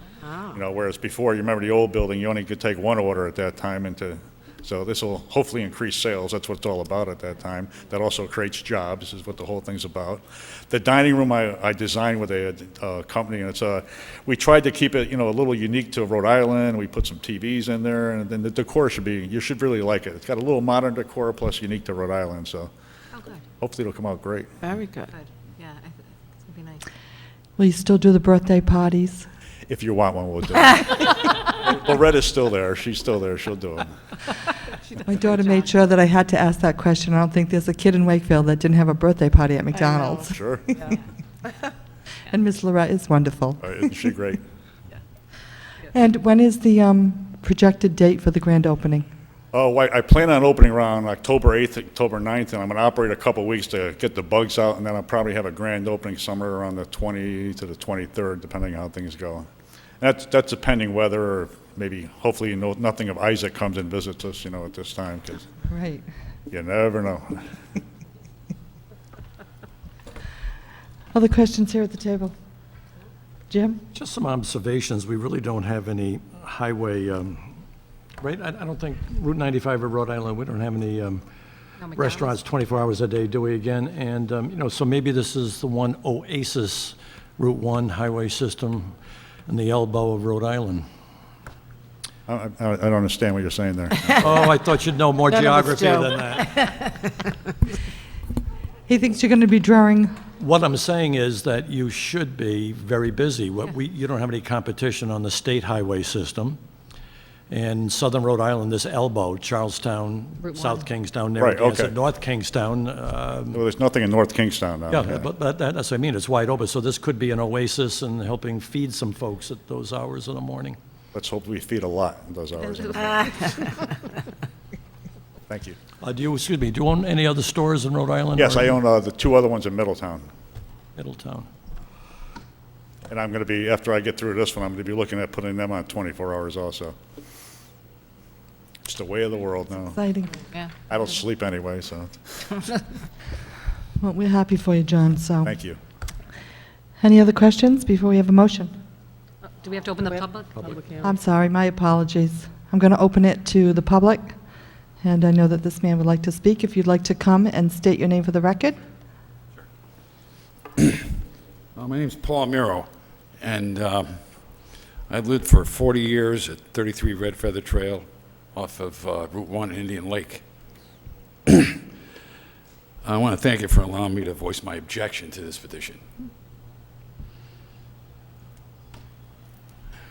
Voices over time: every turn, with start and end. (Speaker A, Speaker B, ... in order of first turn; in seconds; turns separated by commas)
Speaker A: 0.2-0.6, Speaker B: 0.5-22.7, Speaker C: 23.1-23.4, Speaker B: 23.6-24.6, Speaker A: 24.6-25.1, Speaker C: 25.1-26.8, Speaker D: 27.6-29.3, Speaker B: 29.7-34.0, Speaker C: 34.8-35.7, Speaker D: 35.1-40.9, Speaker A: 39.8-40.3, Speaker B: 40.3-40.6, Speaker D: 42.3-43.9, Speaker B: 43.6-44.4, Speaker D: 45.9-49.1, Speaker B: 49.5-59.5, Speaker B: 60.0-65.5, Speaker D: 65.7-66.0, Speaker B: 66.5-67.5, Speaker D: 71.1-72.3, Speaker D: 73.5-73.8, Speaker E: 73.9-77.6, Speaker E: 78.2-81.3, Speaker C: 81.8-82.3, Speaker E: 82.0-89.0, Speaker E: 89.5-90.9, Speaker B: 92.3-94.2, Speaker E: 94.2-97.0, Speaker A: 95.3-96.7, Speaker D: 98.9-100.2, Speaker E: 100.4-106.6, Speaker E: 107.5-113.6, Speaker C: 110.5-110.8, Speaker B: 111.4-111.9, Speaker B: 113.5-115.3, Speaker E: 114.9-120.8, Speaker B: 121.1-123.5, Speaker B: 125.5-125.8, Speaker E: 126.0-128.7, Speaker B: 128.4-130.3, Speaker E: 131.0-131.5, Speaker B: 133.1-136.9, Speaker B: 138.8-140.0, Speaker D: 139.9-140.4, Speaker B: 140.9-142.7, Speaker D: 144.0-145.5, Speaker B: 145.4-145.8, Speaker D: 147.0-148.7, Speaker C: 149.6-150.7, Speaker A: 150.1-151.1, Speaker D: 151.0-154.4, Speaker D: 155.0-158.8, Speaker F: 161.8-164.2, Speaker F: 165.1-170.4, Speaker F: 171.5-171.9, Speaker F: 173.0-176.0